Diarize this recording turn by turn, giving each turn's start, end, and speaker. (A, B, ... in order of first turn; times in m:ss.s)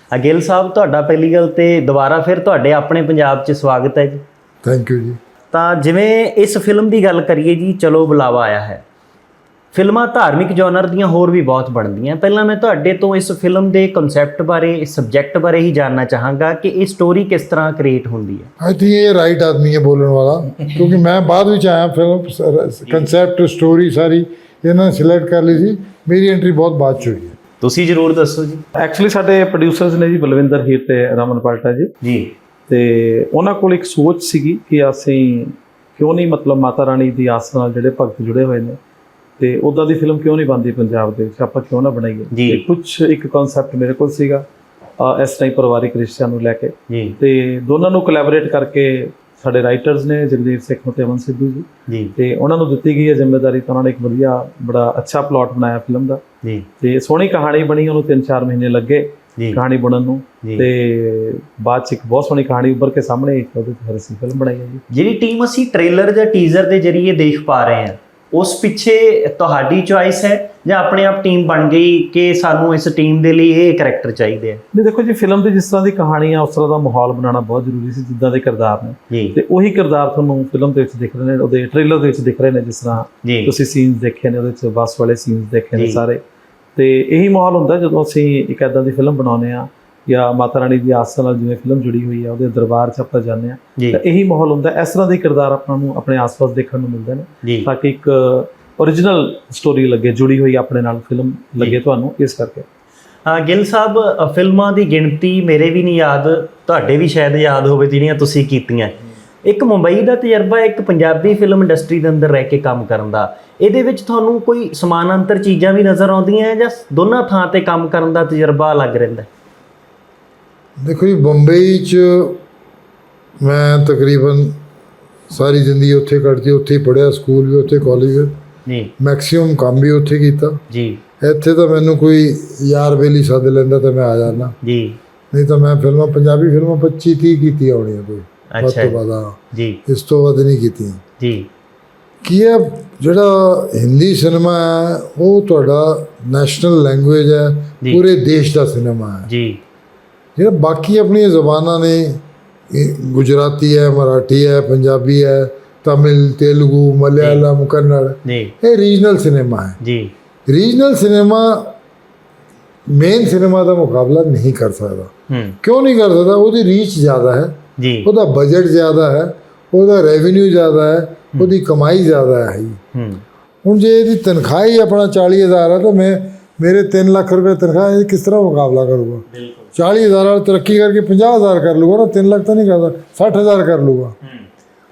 0:00.1-0:04.2 A
0:04.6-0:05.2 B
0:05.5-0:08.8 A
0:09.7-0:18.5 A
0:18.6-0:27.4 B
0:22.8-0:23.1 A
0:27.6-0:28.6 A
0:28.8-0:31.9 C
0:32.0-0:32.3 A
0:32.7-0:38.8 C
0:39.4-0:44.4 C
0:42.3-0:42.6 A
0:45.0-0:56.2 C
0:46.9-0:47.2 A
0:51.9-0:52.1 A
0:56.8-1:04.8 C
1:00.4-1:00.7 A
1:04.9-1:14.6 A
1:14.7-1:26.2 C
1:19.1-1:19.4 A
1:23.2-1:23.5 A
1:25.7-1:26.0 A
1:26.8-1:42.6 C
1:43.2-1:59.3 A
2:00.8-2:02.4 B
2:03.4-2:04.6 B
2:05.3-2:08.3 B
2:08.6-2:08.9 A
2:09.0-2:10.6 B
2:10.7-2:11.0 A
2:11.2-2:14.5 B
2:14.6-2:15.0 A
2:15.3-2:21.0 B
2:18.5-2:19.0 A
2:19.5-2:19.8 A
2:21.2-2:21.5 A
2:22.2-2:29.3 B
2:29.2-2:29.6 A
2:30.4-2:39.8 B
2:37.2-2:37.4 A
2:38.2-2:38.5 A
2:39.8-2:40.1 A
2:40.5-2:41.7 B
2:42.9-2:45.1 B
2:45.3-2:45.6 A
2:45.6-2:52.8 B
2:47.8-2:48.1 A
2:52.9-2:53.2 A
2:53.6-3:04.1 B
2:59.3-2:59.7 A